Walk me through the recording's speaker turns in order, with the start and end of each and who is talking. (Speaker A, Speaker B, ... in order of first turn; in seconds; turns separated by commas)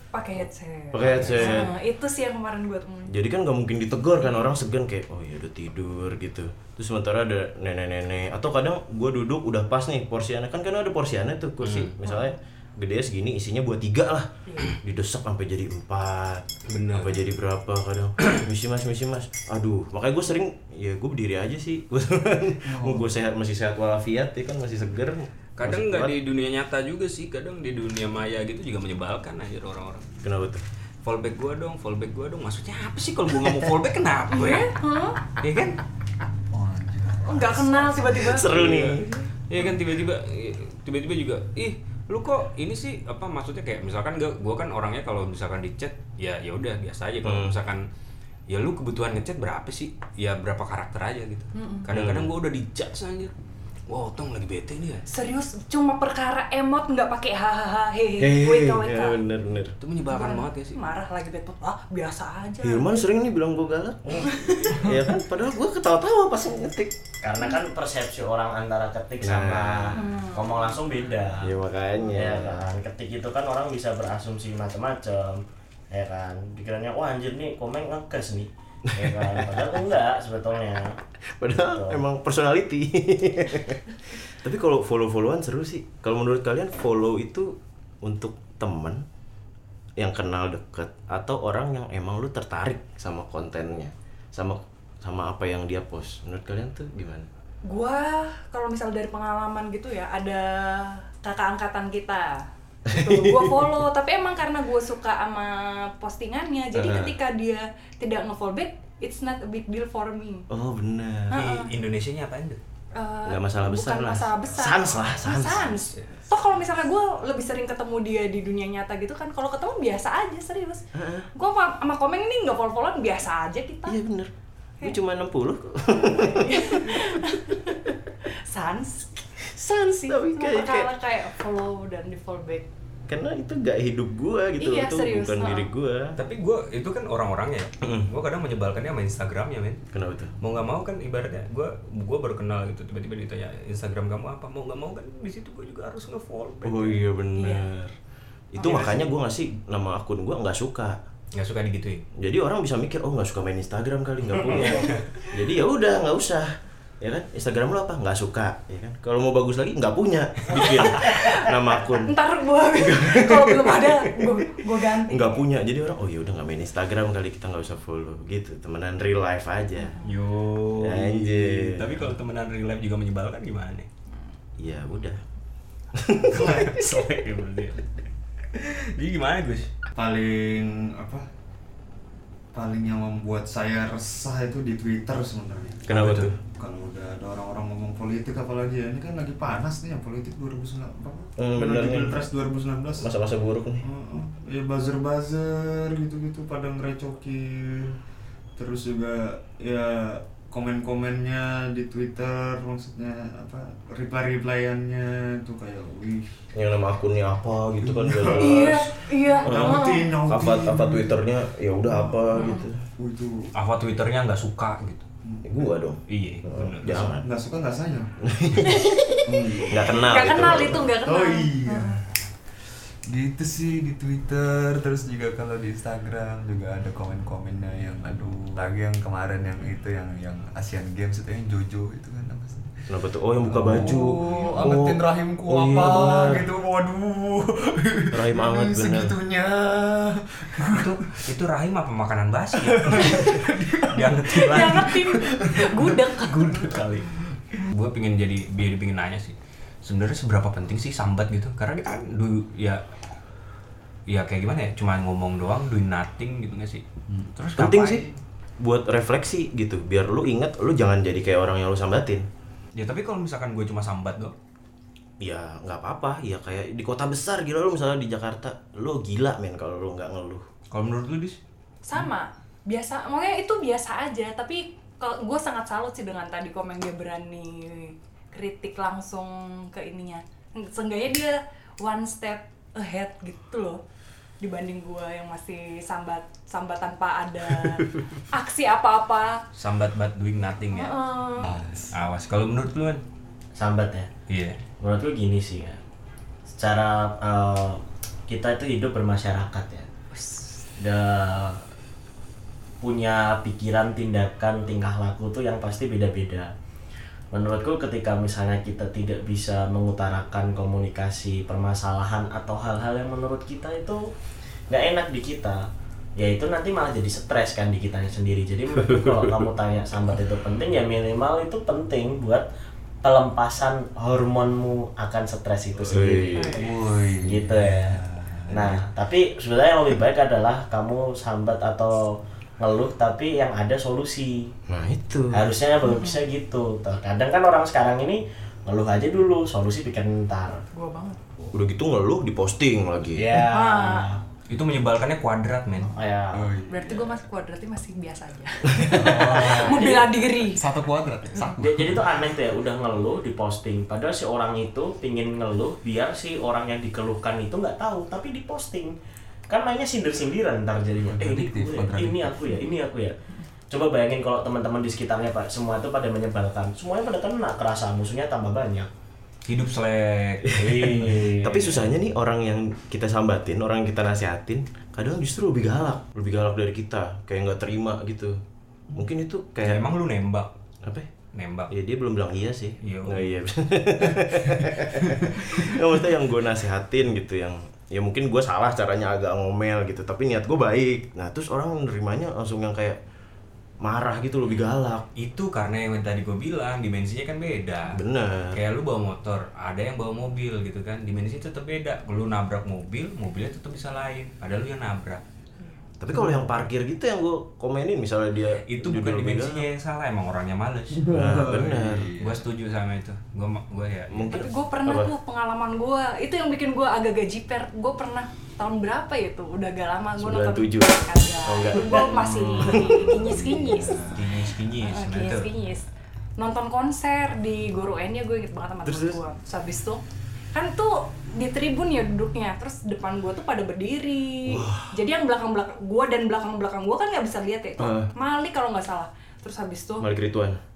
Speaker A: 0.1-3.2, Speaker B: 0.9-1.7, Speaker C: 1.0-1.6, Speaker B: 3.1-26.1, Speaker C: 11.6-11.9, Speaker A: 14.5-14.7, Speaker C: 16.7-17.2, Speaker D: 22.6-23.1, Speaker C: 25.6-30.1, Speaker B: 30.2-30.6, Speaker C: 31.0-34.7, Speaker A: 34.3-35.3, Speaker C: 35.3-35.8, Speaker D: 36.5-38.2, Speaker A: 37.2-38.6, Speaker B: 38.1-39.3, Speaker C: 38.5-47.9, Speaker B: 47.2-47.6, Speaker C: 48.5-53.3, Speaker A: 51.5-51.9, Speaker B: 51.9-52.3, Speaker C: 53.9-55.0, Speaker A: 55.1-59.2, Speaker B: 58.2-59.8, Speaker C: 59.8-60.8, Speaker A: 60.1-62.9, Speaker B: 62.6-67.0, Speaker A: 64.3-64.7, Speaker C: 64.4-64.9, Speaker E: 67.2-71.5, Speaker B: 69.2-70.0, Speaker A: 70.0-70.8, Speaker B: 71.4-72.7, Speaker E: 72.1-81.0, Speaker B: 78.9-79.8, Speaker B: 81.3-89.0, Speaker E: 81.5-82.0, Speaker B: 90.0-97.3, Speaker A: 97.7-110.5, Speaker B: 102.9-103.8, Speaker B: 106.7-107.2, Speaker B: 110.5-111.5, Speaker A: 111.3-111.7, Speaker C: 111.3-112.6, Speaker A: 113.0-124.0, Speaker B: 113.2-115.9, Speaker C: 115.7-116.1, Speaker B: 121.0-121.3, Speaker B: 123.9-127.9, Speaker A: 125.9-132.7, Speaker B: 129.6-130.9, Speaker B: 133.1-136.2, Speaker A: 134.6-135.7, Speaker C: 136.2-139.8, Speaker B: 137.8-138.1, Speaker B: 139.9-140.3, Speaker C: 140.4-147.0, Speaker B: 146.6-147.9, Speaker A: 147.4-147.7, Speaker B: 148.5-151.0, Speaker A: 148.6-149.1, Speaker C: 151.3-152.1, Speaker B: 152.2-170.0, Speaker E: 154.5-154.9, Speaker A: 160.6-165.4, Speaker A: 169.8-170.1, Speaker C: 170.0-173.9, Speaker B: 170.8-172.1, Speaker B: 174.6-175.2, Speaker B: 175.9-176.6, Speaker C: 176.3-177.9, Speaker D: 176.3-176.8, Speaker C: 178.5-179.7, Speaker D: 179.9-181.3, Speaker D: 182.5-185.9, Speaker B: 185.9-186.4, Speaker C: 185.9-186.3, Speaker D: 186.6-193.1, Speaker B: 191.4-192.3, Speaker B: 193.0-193.9, Speaker D: 193.8-198.0, Speaker D: 198.6-206.3, Speaker B: 206.5-208.9, Speaker D: 207.8-211.3, Speaker A: 208.4-210.2, Speaker B: 209.4-212.8, Speaker D: 211.9-212.2, Speaker A: 212.3-212.7, Speaker D: 213.0-213.5, Speaker C: 213.6-215.1, Speaker D: 215.2-215.5, Speaker B: 215.4-217.3, Speaker C: 216.1-217.1, Speaker D: 216.8-218.1, Speaker B: 218.2-219.2, Speaker A: 218.6-222.0, Speaker D: 219.3-222.1, Speaker B: 219.7-220.9, Speaker D: 223.1-232.8, Speaker B: 232.9-236.5, Speaker D: 233.4-241.2, Speaker B: 238.1-239.2, Speaker C: 240.6-243.3, Speaker D: 242.6-246.1, Speaker A: 243.0-243.4, Speaker C: 243.9-245.0, Speaker A: 244.4-246.7, Speaker C: 246.2-252.8, Speaker C: 254.1-256.8, Speaker D: 257.1-257.7, Speaker C: 257.4-258.0, Speaker B: 257.6-262.3, Speaker C: 262.8-264.4, Speaker B: 265.2-270.5, Speaker C: 270.7-271.4, Speaker A: 271.8-283.8, Speaker A: 284.4-289.4, Speaker B: 287.5-288.1, Speaker C: 289.6-291.0, Speaker A: 290.7-291.6, Speaker D: 291.4-291.9, Speaker C: 291.9-293.0, Speaker E: 293.6-294.1, Speaker C: 294.3-294.6, Speaker E: 294.8-295.8, Speaker E: 296.6-299.9, Speaker A: 300.1-300.6, Speaker E: 300.8-301.6, Speaker E: 302.8-306.5, Speaker E: 307.3-314.1, Speaker E: 314.7-315.7, Speaker E: 316.2-322.5, Speaker B: 318.8-319.5, Speaker E: 323.0-326.7, Speaker B: 325.9-326.6, Speaker A: 326.3-326.7, Speaker D: 326.5-328.7, Speaker E: 327.2-334.5, Speaker B: 334.7-335.5, Speaker E: 335.3-340.6, Speaker A: 335.8-336.2, Speaker A: 340.7-341.2, Speaker B: 341.5-343.4, Speaker E: 343.1-344.2, Speaker A: 343.5-344.1, Speaker C: 344.5-346.0, Speaker E: 345.9-346.5, Speaker D: 346.3-347.2, Speaker A: 346.7-350.6, Speaker D: 348.9-352.3, Speaker E: 349.1-350.2, Speaker E: 351.6-359.0, Speaker E: 359.5-363.2, Speaker D: 361.1-362.4, Speaker E: 363.7-368.9, Speaker C: 369.5-370.9, Speaker B: 370.5-378.4, Speaker E: 370.5-371.8, Speaker B: 378.9-379.9, Speaker C: 379.6-380.5, Speaker B: 380.8-381.1, Speaker C: 381.3-381.7, Speaker B: 381.7-393.0, Speaker C: 382.8-383.3, Speaker B: 393.8-395.1, Speaker C: 395.2-398.0, Speaker B: 397.9-398.6, Speaker C: 398.5-405.2, Speaker B: 406.0-409.7, Speaker D: 406.1-406.4, Speaker C: 408.6-411.1, Speaker D: 411.0-412.4, Speaker B: 411.1-412.1, Speaker C: 412.2-414.5, Speaker B: 414.1-415.1, Speaker A: 414.3-424.2, Speaker B: 420.2-423.4, Speaker D: 422.1-424.3, Speaker C: 424.1-425.5, Speaker A: 424.8-425.9, Speaker A: 426.4-430.0, Speaker B: 428.8-429.2, Speaker A: 430.5-440.1, Speaker B: 434.4-435.0, Speaker B: 437.8-438.1, Speaker B: 440.0-440.6